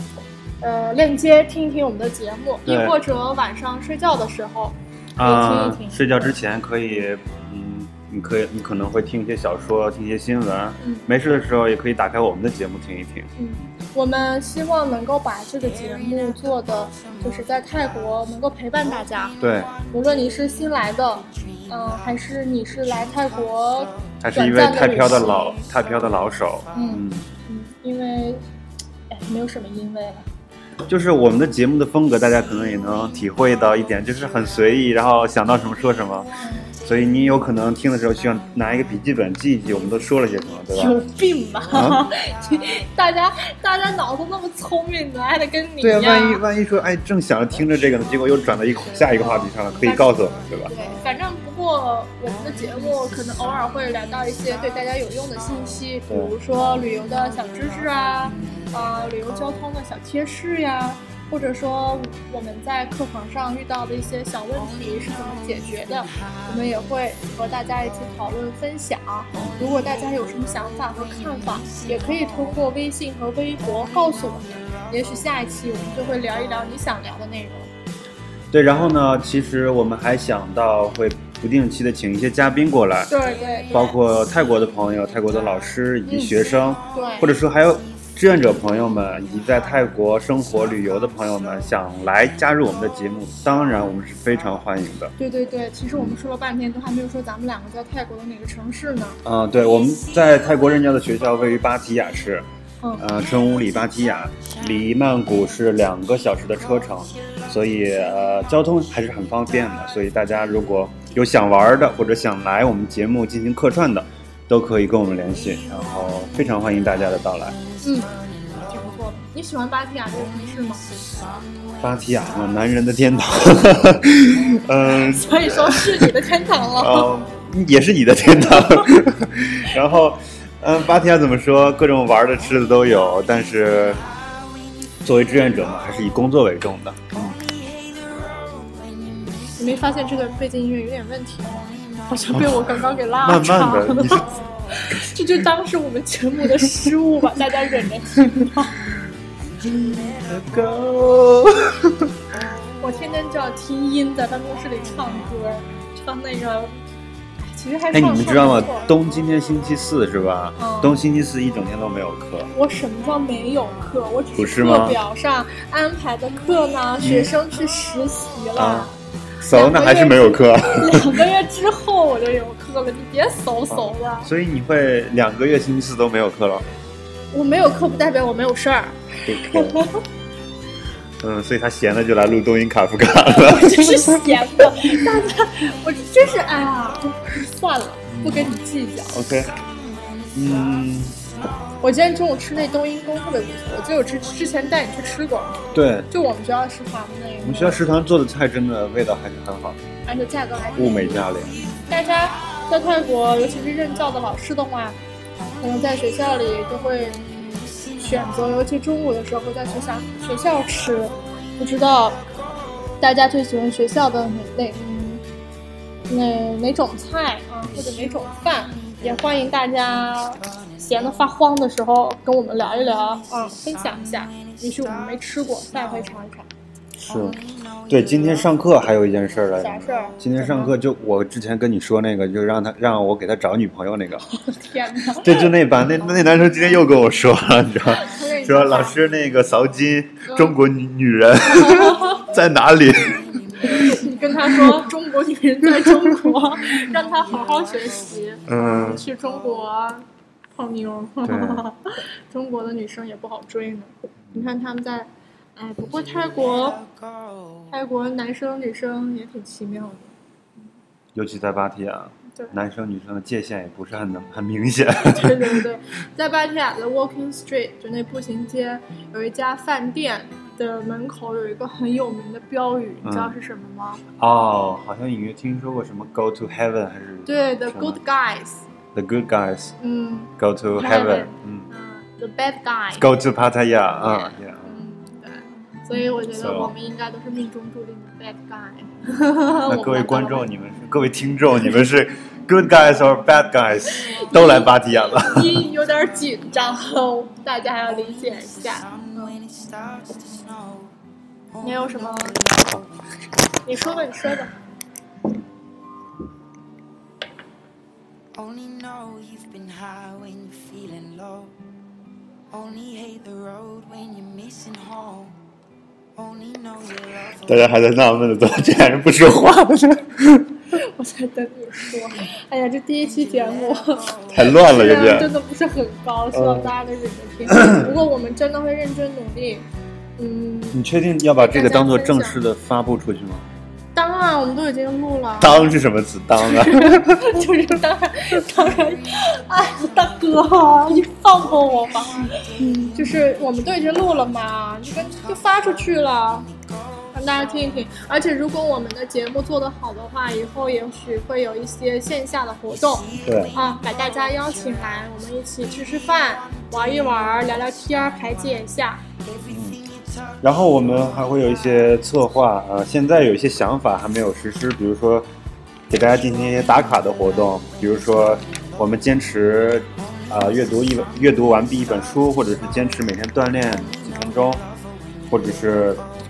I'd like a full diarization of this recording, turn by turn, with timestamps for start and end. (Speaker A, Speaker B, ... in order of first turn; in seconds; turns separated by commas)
Speaker A: 0.6-6.0, Speaker B: 2.6-3.0, Speaker B: 5.2-13.3, Speaker A: 10.8-11.1, Speaker A: 13.4-19.4, Speaker B: 19.4-19.7, Speaker A: 19.9-25.7, Speaker B: 24.2-27.3, Speaker A: 26.7-28.4, Speaker A: 29.1-30.3, Speaker B: 30.9-36.3, Speaker A: 36.4-36.7, Speaker B: 36.8-40.9, Speaker A: 40.7-46.4, Speaker B: 41.7-42.0, Speaker B: 45.8-50.7, Speaker A: 50.7-77.7, Speaker B: 78.5-83.1, Speaker A: 83.1-83.8, Speaker B: 83.7-95.1, Speaker A: 86.1-86.3, Speaker A: 86.9-87.3, Speaker A: 95.2-99.2, Speaker B: 99.2-102.5, Speaker B: 103.0-117.6, Speaker A: 117.8-118.1, Speaker A: 118.7-120.8, Speaker B: 121.8-126.1, Speaker A: 124.9-127.1, Speaker B: 126.8-134.0, Speaker B: 135.0-137.3, Speaker C: 137.3-139.6, Speaker A: 139.6-148.8, Speaker B: 142.3-142.6, Speaker B: 143.2-144.3, Speaker B: 149.6-152.1, Speaker A: 152.8-156.8, Speaker A: 157.4-158.9, Speaker B: 157.9-162.5, Speaker A: 160.6-161.0, Speaker A: 162.5-168.9, Speaker B: 164.3-165.0, Speaker B: 167.0-167.3, Speaker B: 168.6-171.2, Speaker A: 169.5-174.3, Speaker B: 173.7-176.7, Speaker A: 177.3-180.0, Speaker B: 179.2-179.8, Speaker B: 181.2-184.9, Speaker A: 183.3-189.2, Speaker B: 188.1-188.6, Speaker B: 189.1-189.5, Speaker B: 190.3-191.2, Speaker A: 191.8-197.8, Speaker B: 195.7-196.1, Speaker B: 197.4-199.8, Speaker A: 200.1-201.3, Speaker B: 200.8-201.6, Speaker A: 201.9-205.0, Speaker A: 205.6-207.3, Speaker A: 207.9-212.2, Speaker A: 213.0-215.2, Speaker A: 216.1-226.5, Speaker B: 227.0-234.2, Speaker A: 229.6-230.8, Speaker A: 234.4-235.5, Speaker B: 235.2-243.2, Speaker A: 237.9-239.0, Speaker A: 240.3-240.5, Speaker A: 241.6-242.2, Speaker C: 243.1-243.4, Speaker A: 243.6-256.8, Speaker B: 245.8-246.3, Speaker B: 248.5-249.1, Speaker B: 251.2-251.7, Speaker C: 256.2-257.7, Speaker A: 257.7-260.1, Speaker B: 261.1-265.6, Speaker A: 265.0-274.0, Speaker B: 273.0-273.3, Speaker B: 274.2-278.0, Speaker A: 277.2-278.6, Speaker B: 278.9-279.7, Speaker A: 279.8-283.1, Speaker B: 280.4-281.7, Speaker B: 282.9-284.7, Speaker A: 284.6-290.5, Speaker B: 286.3-286.7, Speaker B: 289.7-295.6, Speaker A: 294.1-299.4, Speaker C: 298.9-300.9, Speaker C: 301.6-302.9, Speaker A: 301.6-302.4, Speaker A: 303.6-304.6, Speaker C: 308.3-311.5, Speaker C: 312.5-315.4, Speaker C: 316.2-317.5, Speaker B: 317.4-320.5, Speaker A: 320.7-329.6, Speaker B: 324.3-325.3, Speaker B: 326.3-326.7, Speaker B: 327.5-327.9, Speaker A: 330.2-330.8, Speaker B: 330.7-333.4, Speaker A: 331.4-332.4, Speaker A: 333.9-335.8, Speaker B: 335.4-337.2, Speaker A: 336.4-346.5, Speaker A: 347.1-359.0, Speaker B: 353.2-353.6, Speaker B: 359.4-359.8, Speaker B: 360.4-365.2, Speaker B: 365.9-374.6, Speaker B: 375.3-376.0